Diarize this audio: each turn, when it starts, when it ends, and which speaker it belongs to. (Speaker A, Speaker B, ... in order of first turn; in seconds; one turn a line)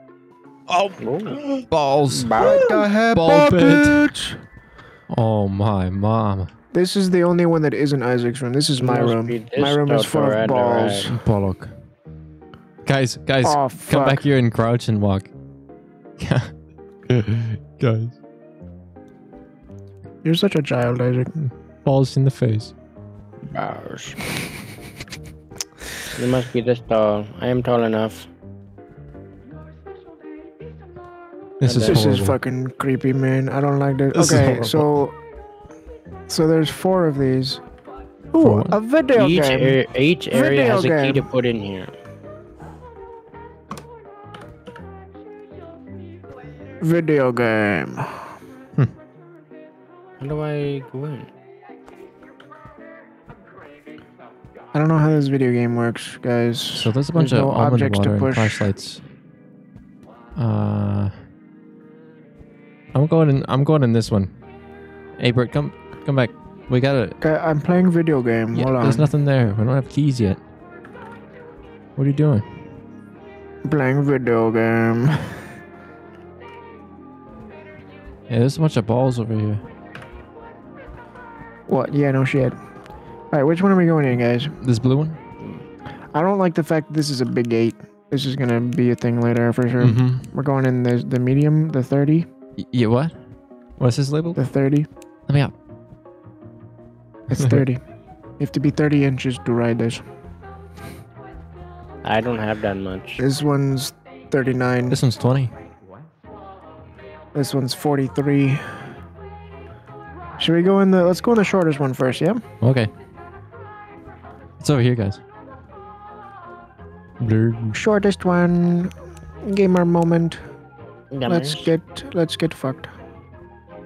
Speaker A: 0.7-2.5
Speaker B: 1.0-1.4
Speaker B: 2.1-2.8
Speaker C: 2.4-4.4
Speaker A: 3.1-4.1
Speaker A: 5.1-6.5
Speaker C: 6.7-11.2
Speaker B: 8.8-11.1
Speaker A: 11.1-11.7
Speaker A: 12.8-15.3
Speaker C: 13.4-14.2
Speaker A: 16.2-16.6
Speaker A: 17.1-18.2
Speaker C: 20.2-21.3
Speaker A: 21.4-22.7
Speaker B: 23.5-24.2
Speaker B: 26.1-28.3
Speaker A: 31.6-32.4
Speaker B: 31.6-32.0
Speaker C: 31.9-35.2
Speaker A: 34.1-34.9
Speaker C: 36.3-37.6
Speaker C: 38.3-41.3
Speaker A: 38.4-38.8
Speaker B: 39.1-41.9
Speaker C: 46.8-48.3
Speaker B: 50.2-51.3
Speaker C: 54.7-58.7
Speaker A: 56.8-59.0
Speaker A: 60.4-61.2
Speaker A: 62.9-64.4
Speaker A: 65.2-67.2
Speaker C: 67.2-69.1
Speaker A: 68.5-70.4
Speaker A: 72.0-72.5
Speaker C: 73.7-75.4
Speaker A: 78.3-79.6
Speaker C: 81.7-82.6
Speaker C: 83.3-84.5
Speaker A: 84.6-85.2
Speaker C: 86.1-92.3
Speaker A: 89.8-90.3
Speaker A: 92.6-93.2
Speaker A: 93.8-94.4
Speaker C: 94.4-94.9
Speaker A: 95.3-95.5
Speaker C: 97.3-97.8
Speaker C: 98.4-100.0
Speaker B: 102.0-103.2
Speaker C: 103.2-105.0
Speaker A: 104.9-105.5
Speaker C: 107.3-108.9
Speaker C: 110.4-112.4
Speaker A: 112.6-112.9
Speaker A: 114.6-115.2
Speaker A: 117.2-117.8
Speaker C: 117.7-118.9
Speaker C: 119.4-120.4
Speaker B: 121.1-121.7
Speaker C: 121.3-122.9